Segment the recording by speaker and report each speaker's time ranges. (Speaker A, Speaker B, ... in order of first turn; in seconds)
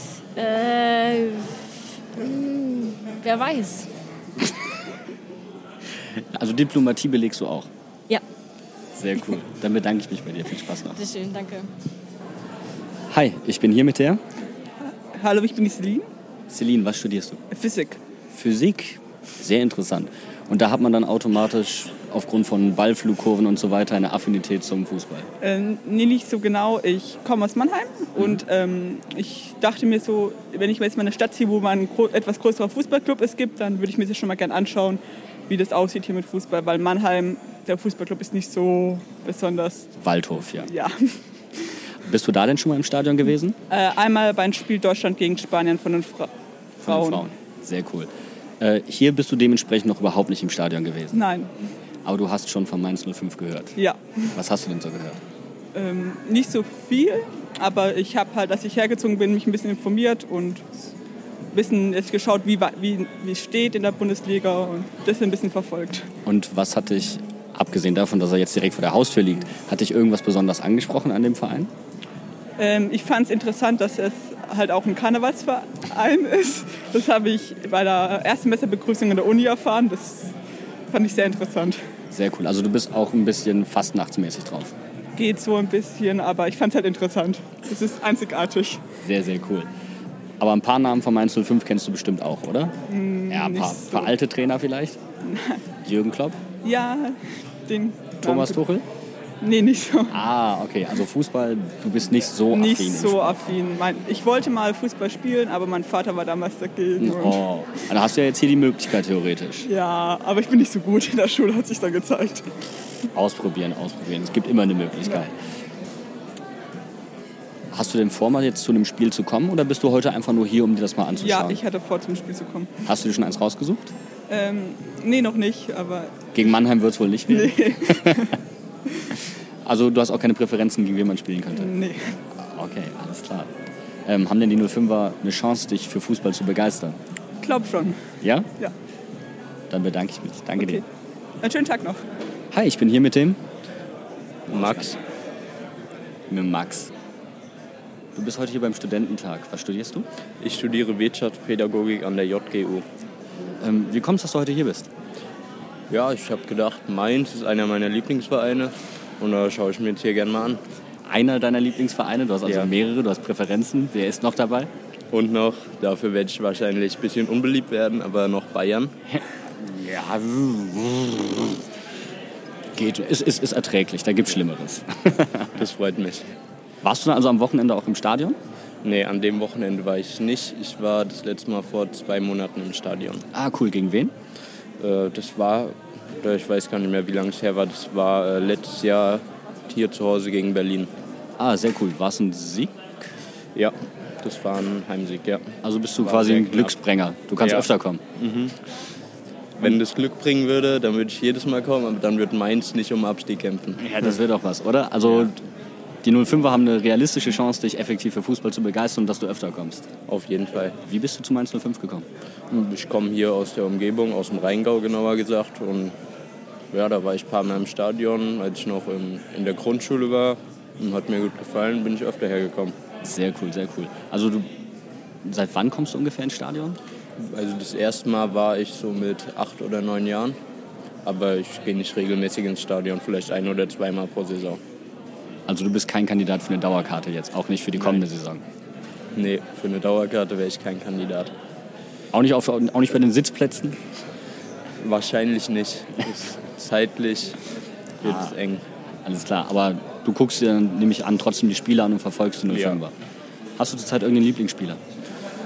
Speaker A: 0.3-3.9, 10.9-11.7
Speaker B: 6.2-7.7, 8.9-11.0, 13.1-14.2, 16.5-17.4, 18.3-25.3, 40.0-40.7, 42.0-43.6, 46.8-51.2, 52.0-53.8, 54.4-55.2, 66.3-71.7, 82.1-84.7, 89.0-89.7, 90.4-92.7, 93.3-95.0, 95.8-96.4, 98.2-98.8, 100.1-103.4, 107.0-109.7, 113.1-115.3, 117.7-121.6, 122.8-123.9, 126.3-128.3, 129.6-131.7, 132.3-133.5, 134.1-137.0, 138.2-138.5, 139.7-140.8, 142.5-143.4, 144.5-145.0, 146.3-146.9, 148.2-150.1, 153.6-154.9, 161.1-164.7, 169.1-171.6, 172.8-175.6, 176.8-178.4, 183.3-184.1, 191.4-192.8, 195.6-198.0, 203.8-205.4, 206.0-209.9, 210.8-212.1, 223.0-224.5, 225.2-226.8, 235.5-238.4, 242.1-243.8, 248.0-248.4, 249.1-252.9, 253.6-254.8
Speaker C: 15.1-16.1, 17.5-18.0, 25.4-39.9, 40.6-41.1, 43.7-46.3, 46.8-47.3, 51.1-51.5, 55.8-60.7, 61.5-66.0, 72.6-80.3, 80.9-81.8, 85.2-88.8, 92.9-94.1, 95.2-95.6, 96.6-98.6, 99.4-100.2, 102.5-107.4, 109.6-112.5, 121.2-122.7, 124.3-126.1, 127.3-128.4, 131.6-132.2, 137.4-138.0, 140.6-140.8, 141.4-142.0
Speaker D: 144.5-145.0, 150.4-152.8, 155.9-160.6, 162.4-162.7, 165.1-168.9, 175.6-176.3, 178.8-183.2, 184.8-190.9, 193.6-196.8, 197.4-198.5, 199.6-204.2, 205.0-205.3, 210.1-210.8, 212.5-216.0, 216.7-222.8, 227.2-230.4, 231.1-234.6, 237.8-238.0, 239.2-241.3, 244.8-247.4, 248.0-248.6, 252.5-252.8